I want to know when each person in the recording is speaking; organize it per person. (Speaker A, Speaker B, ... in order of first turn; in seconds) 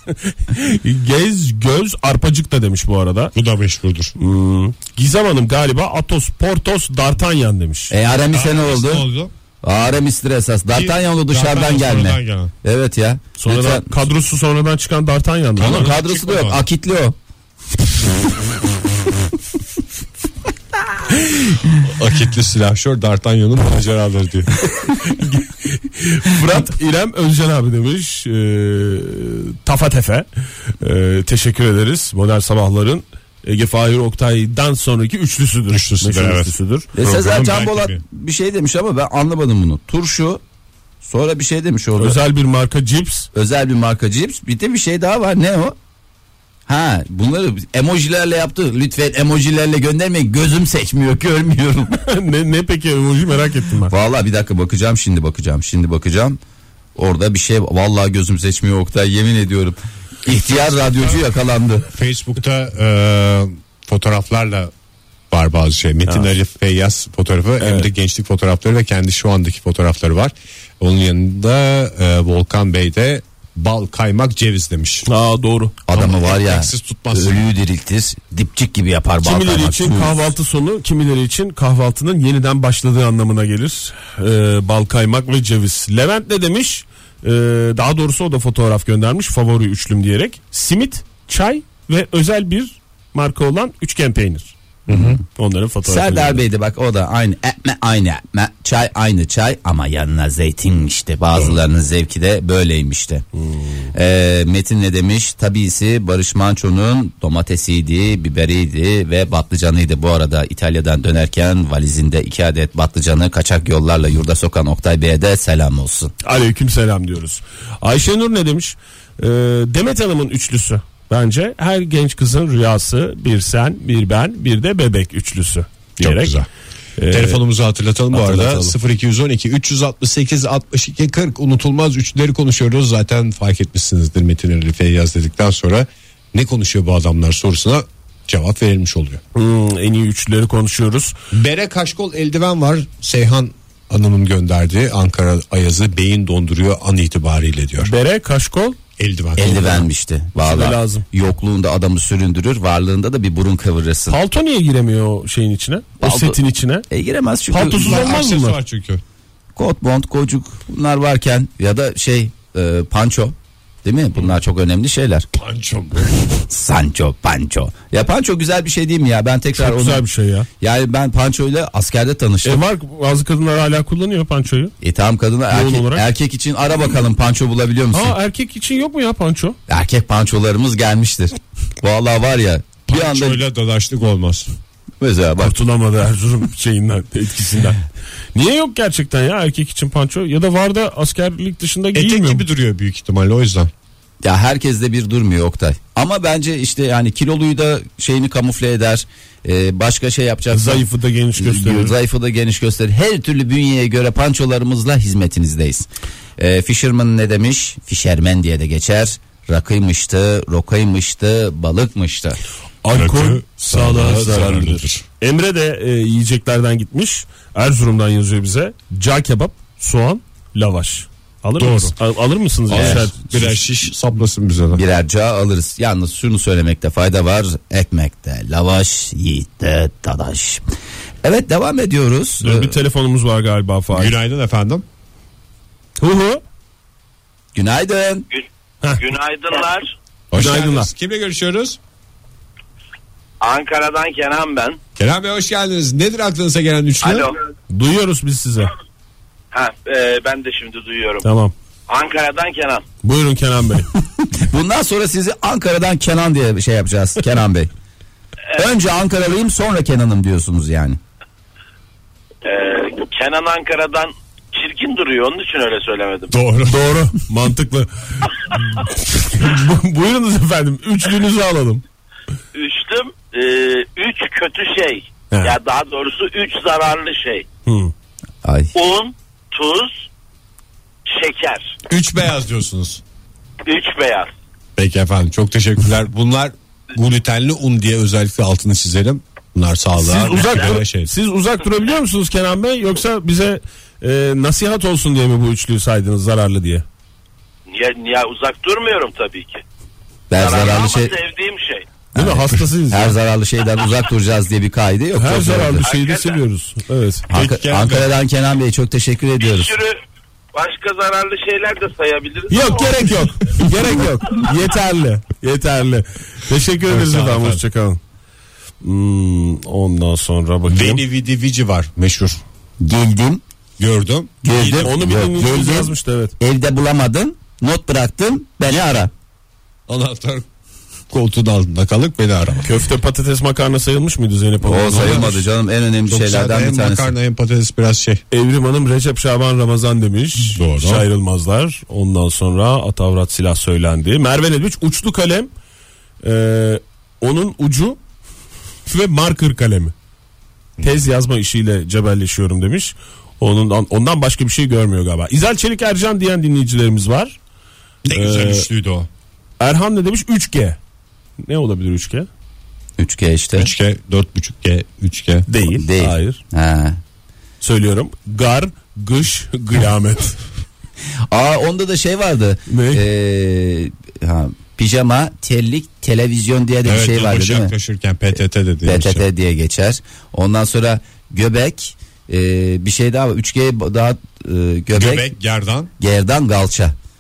Speaker A: 0.3-3.3, 4.2-7.9, 13.4-15.9, 24.9-30.2, 30.8-36.9, 42.0-43.3, 52.0-53.9, 66.0-66.3, 67.6-67.9, 75.0-75.8, 79.2-94.5, 95.3-96.4, 103.3-103.9, 116.2-126.4, 127.0-127.4, 128.1-128.8, 139.3-141.1, 147.8-148.8, 150.4-151.1, 154.1-156.8, 157.5-158.6, 169.5-170.5, 172.4-174.7, 175.5-176.1, 177.9-179.6, 185.4-192.4, 200.5-201.9, 212.8-223.7, 232.4-234.2, 236.0-236.4, 240.4-240.9, 247.7-248.7, 251.2-251.5, 253.0-253.9, 266.6-271.8, 275.3-275.6, 277.6-277.9, 290.0-296.8, 302.1-303.1, 305.1-307.3, 312.5-318.0, 318.8-321.0, 324.6-326.3, 332.6-335.4, 338.3-345.5, 346.2-348.0, 348.9-349.9, 350.8-357.4, 358.1-358.7, 359.6-360.8, 361.4-362.3, 365.5-366.4, 367.6-370.4, 372.7-373.1
Speaker B: 3.3-4.1, 8.3-9.3, 10.7-12.5, 15.6-16.6, 21.8-24.5, 35.7-38.0, 61.9-64.7, 65.3-75.1, 75.9-77.5, 94.9-95.2, 126.0-126.5, 127.1-139.2, 141.3-147.9, 149.0-149.9, 157.7-159.0, 165.3-166.3, 182.9-184.5, 191.9-193.7, 212.9-215.0, 221.6-221.9, 222.7-224.8, 233.9-234.8, 240.3-241.8, 245.0-247.3, 266.3-266.9, 281.9-283.0, 284.8-291.1, 307.3-308.1, 316.9-317.6, 320.7-322.4, 323.8-324.9, 329.9-330.4, 331.1-332.7, 334.9-335.3, 336.1-338.2, 340.5-341.1, 358.0-359.1, 363.6-365.5, 376.8-379.2, 384.9-385.9
Speaker C: 7.9-9.1, 9.6-13.9, 15.6-17.2, 36.9-40.4, 41.0-42.2, 43.3-45.8, 46.7-52.0, 53.9-56.4, 57.0-61.9, 75.9-80.2, 94.9-95.2, 95.8-103.2, 103.9-116.1, 149.3-154.2, 156.0-158.2, 159.6-165.3, 166.4-170.0, 170.6-172.6, 174.8-178.2, 179.7-183.4, 185.0-185.5, 194.2-212.4, 222.7-223.1, 224.7-230.6, 231.2-232.8, 237.5-238.2, 254.3-257.7, 258.5-261.0, 278.4-278.7, 300.3-301.1, 302.1-305.8, 307.3-309.7, 322.8-323.4, 324.4-329.1, 334.6-337.1, 363.0-363.7, 365.7-367.0, 371.3-377.7, 378.8-385.3, 386.0-386.9
Speaker D: 239.0-239.9, 243.4-244.8, 247.0-247.4, 249.5-251.3, 251.9-252.8, 262.4-266.4, 272.5-277.5, 278.7-280.1, 281.1-281.8, 283.6-284.3, 297.7-299.6, 300.4-301.9, 305.8-306.4, 309.4-310.0, 310.5-312.8